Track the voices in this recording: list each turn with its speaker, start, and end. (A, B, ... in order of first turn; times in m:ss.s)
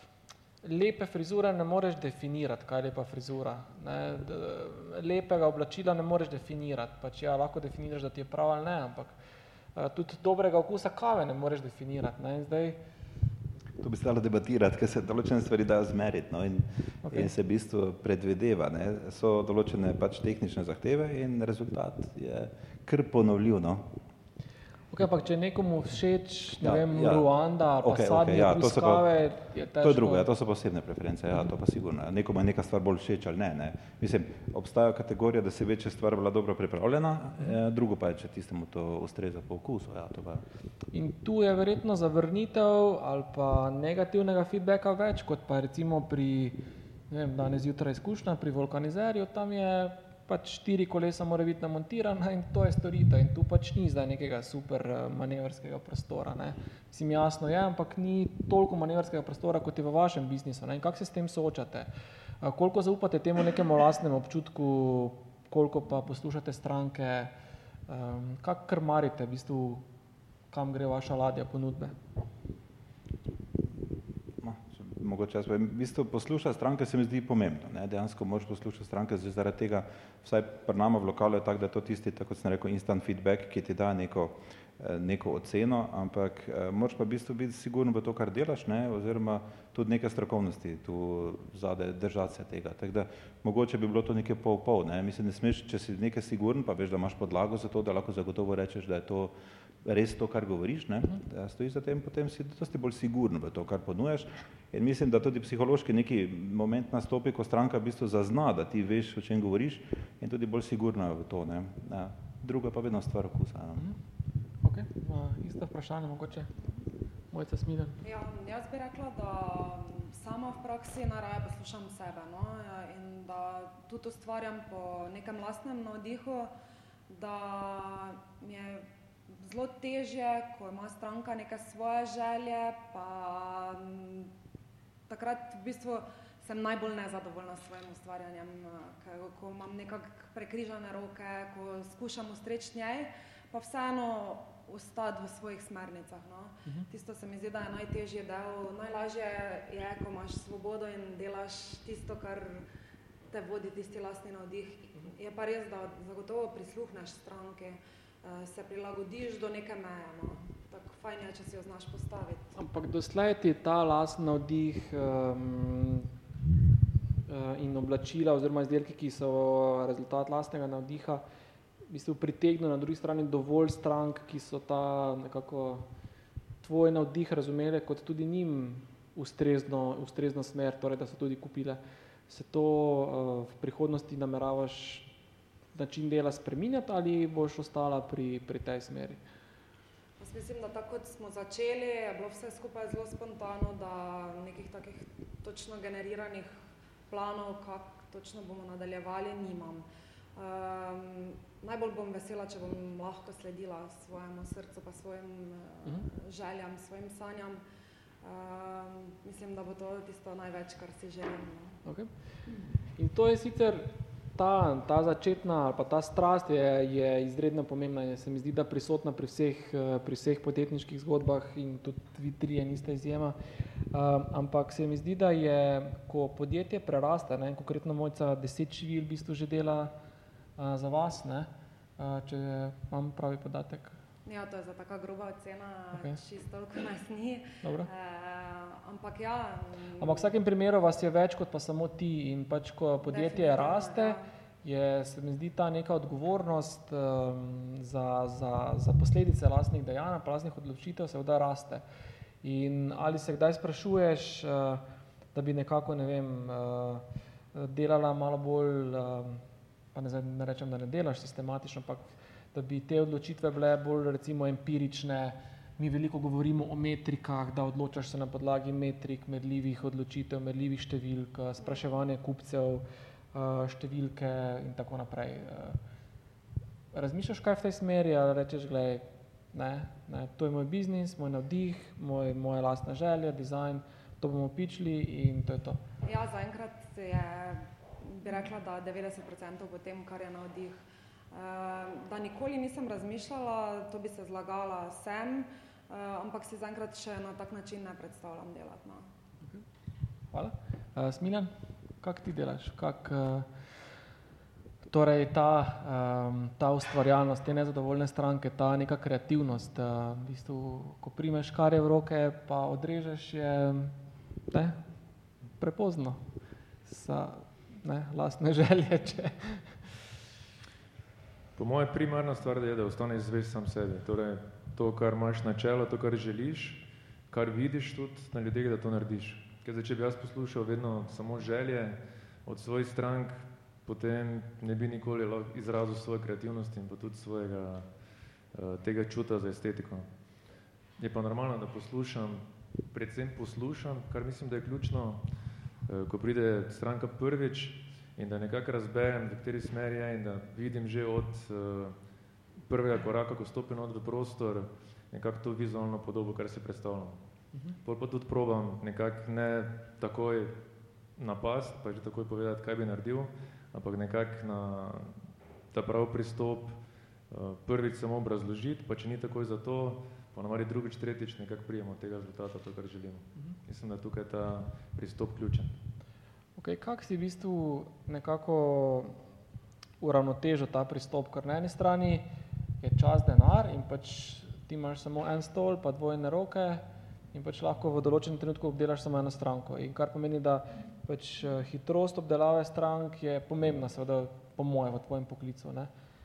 0:00.6-0:09.2 A
0:09.8-0:12.8 A
0:13.8-0:23.9 B
0:24.9-0:30.3 A
0:26.6-0:27.3 B
0:27.8-0:29.1 B
0:29.8-0:40.4 B
0:40.9-0:46.6 A
0:47.1-1:01.9 A
1:02.4-1:07.3 A
1:07.9-1:09.8 A
1:10.5-1:12.0 A
1:14.4-1:39.3 B
1:39.8-1:53.8 B
1:54.6-1:56.5 A
1:57.3-1:58.0 A
1:58.0-2:06.5 C
2:07.1-2:14.3 C
2:15.1-2:32.6 C
2:33.3-2:42.5 C
2:42.6-2:46.1 A
2:47.3-2:51.2 A
2:51.9-2:55.9 A
2:56.6-3:05.1 A
3:05.7-3:09.2 A
3:10.2-3:16.5 C
3:17.1-3:19.8 C
3:20.4-3:27.6 C
3:28.2-3:31.8 C
3:31.8-3:32.1 A
3:33.0-3:43.4 A
3:43.9-3:49.9 A
3:50.6-3:53.9 A
3:54.2-4:00.3 C
3:57.6-3:57.9 A
4:00.0-4:11.8 A
4:03.1-4:04.2 C
4:12.4-4:19.4 A
4:19.9-4:35.8 A
4:36.9-4:45.8 A
4:46.0-4:50.8 C
4:51.3-4:59.0 C
5:00.3-5:03.5 A
5:04.9-5:14.0 A
5:14.5-5:14.8 A
5:15.6-5:16.2 A
5:16.8-5:19.9 A
5:21.6-5:37.9 D
5:38.5-5:40.1 D
5:41.0-5:45.2 D
5:45.9-5:52.0 D
5:52.7-5:57.2 D
5:57.8-6:00.6 D
6:01.2-6:06.8 D
6:07.3-6:15.8 D
6:16.6-6:19.2 A
6:20.0-6:22.3 A
6:22.8-6:35.9 A